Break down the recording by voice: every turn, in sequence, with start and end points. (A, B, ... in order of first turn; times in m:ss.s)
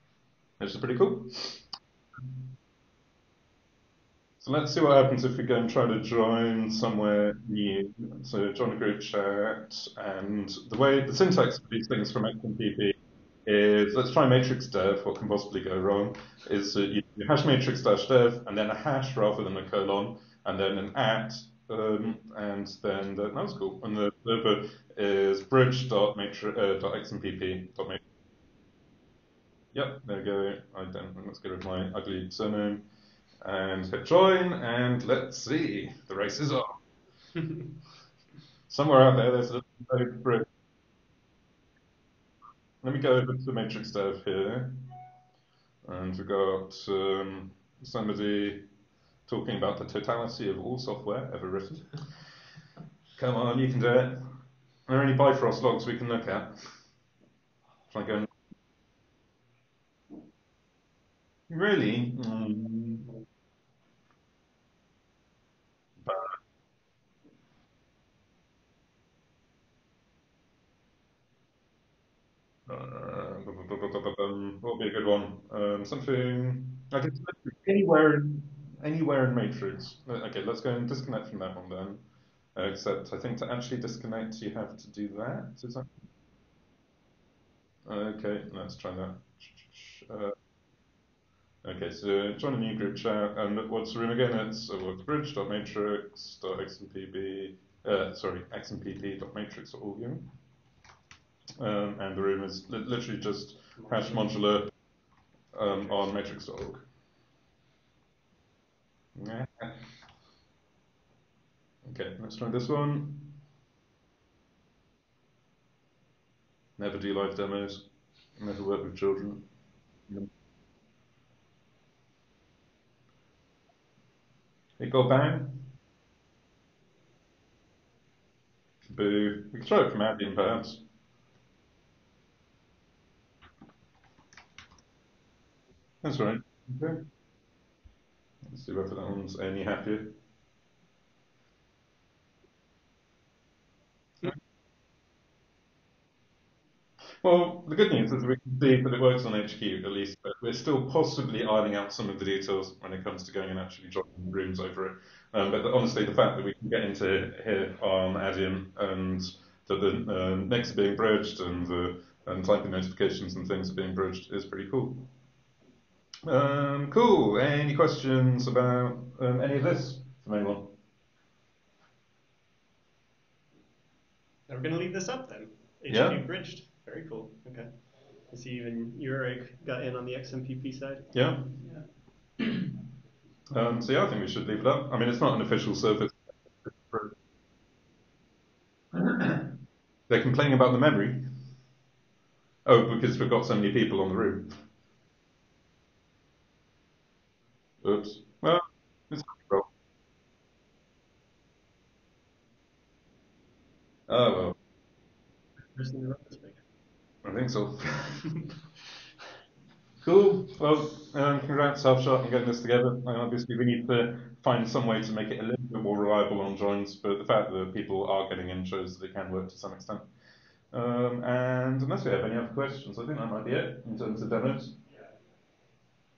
0:00.6-0:01.6 A
0:04.4-0:28.0 A
0:29.7-0:32.8 A
0:33.4-0:36.8 A
0:38.7-0:40.5 A
0:42.8-0:44.8 A
0:45.8-0:48.7 A
0:49.3-0:52.0 A
0:53.2-0:54.2 A
0:54.9-0:56.6 A
0:57.9-0:58.3 A
1:01.5-1:03.1 A
1:06.0-1:06.3 A
1:12.7-1:22.0 A
1:22.6-1:25.9 A
1:27.9-1:30.4 A
1:31.6-1:40.3 A
1:41.6-1:44.7 A
1:43.8-1:44.3 B
1:45.5-1:46.8 A
1:49.2-1:49.8 A
1:51.8-1:53.4 A
1:56.8-1:59.4 A
2:04.8-2:05.7 A
2:08.9-2:10.8 A
2:16.0-2:17.1 A
2:18.4-2:20.2 A
2:27.2-2:45.1 A
2:46.3-2:50.8 A
2:54.5-2:57.7 B
2:55.9-2:56.3 A
2:58.3-3:01.2 B
3:01.1-3:01.8 A
3:03.5-3:06.2 A
3:06.7-3:07.1 A
3:08.9-3:09.5 A
3:10.1-3:11.2 A
3:12.7-3:14.6 A
3:17.8-3:19.7 A
3:24.1-3:24.5 A
3:25.8-3:26.6 B
3:27.2-3:28.4 A
3:30.0-3:40.1 A
3:40.7-3:44.8 A